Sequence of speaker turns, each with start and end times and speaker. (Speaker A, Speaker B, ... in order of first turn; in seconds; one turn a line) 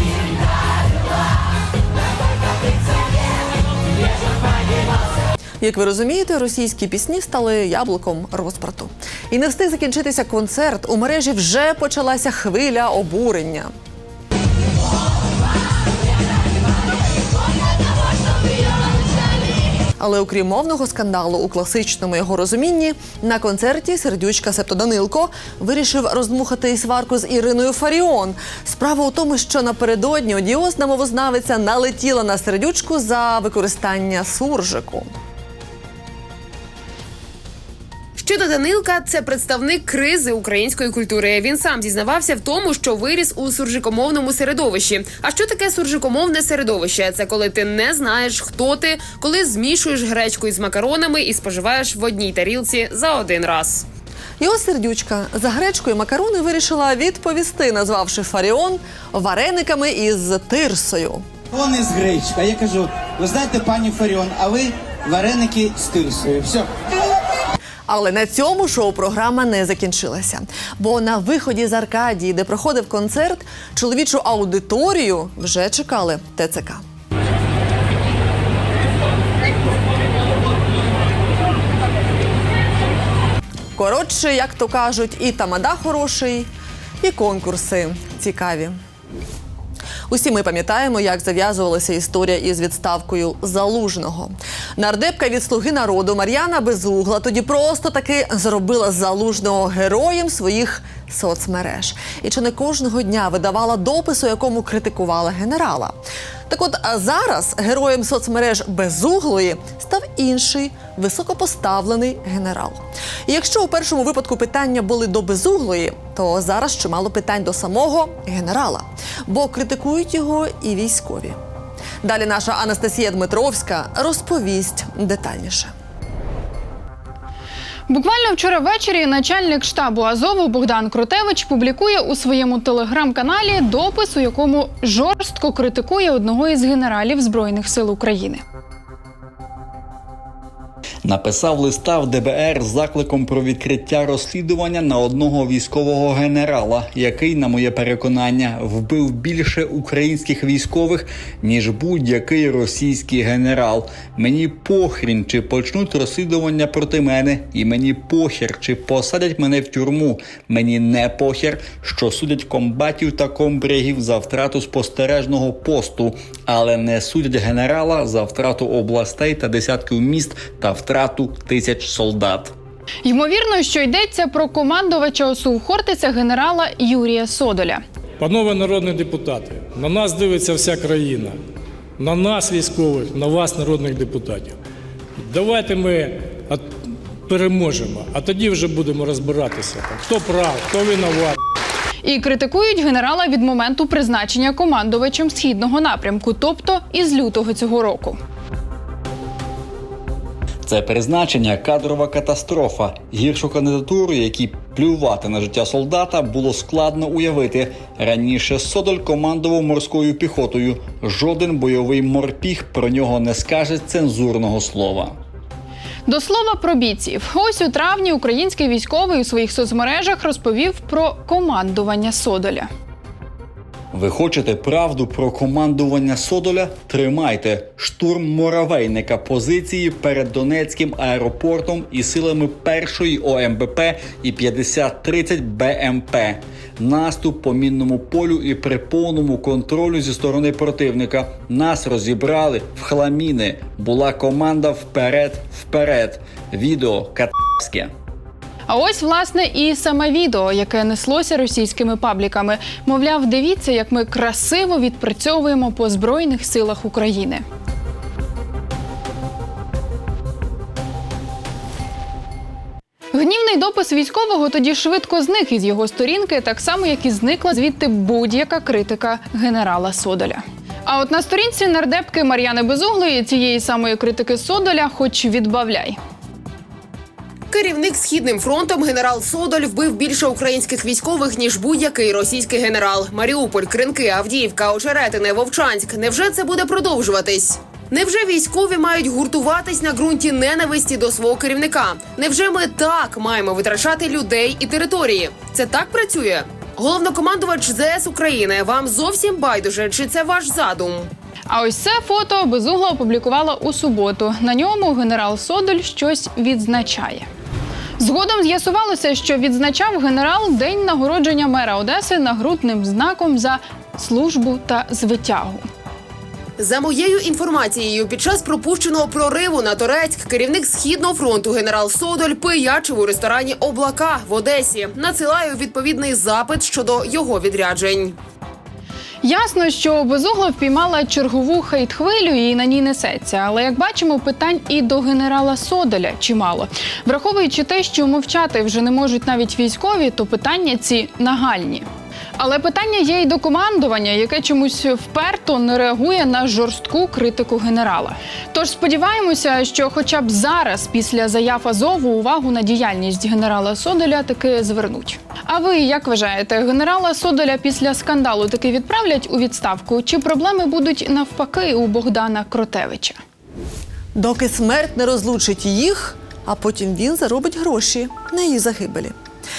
Speaker A: 5.6-13.7
Speaker A: 20.0-35.1
Speaker B: 38.2-53.9
Speaker A: 54.4-61.2
Speaker C: 61.5-66.7
Speaker A: 67.9-76.8
Speaker A: 83.8-86.5
Speaker A: 87.0-88.8
Speaker A: 90.1-121.4
Speaker A: 122.0-125.7
Speaker D: 127.9-138.4
Speaker E: 141.0-172.5
Speaker D: 173.0-177.8
Speaker F: 178.2-181.4
Speaker F: 182.0-184.6
Speaker F: 185.2-191.4
Speaker D: 192.0-198.2
Speaker E: 200.6-215.2
Speaker D: 216.1-222.7
Speaker E: 223.9-247.9
Speaker D: 248.7-257.4
Speaker D: 263.1-276.0
Speaker B: 277.5-301.1
Speaker D: 301.5-307.3
Speaker D: 308.0-315.7
Speaker B: 316.6-328.2
Speaker D: 329.2-363.2
Speaker A: 364.1-369.1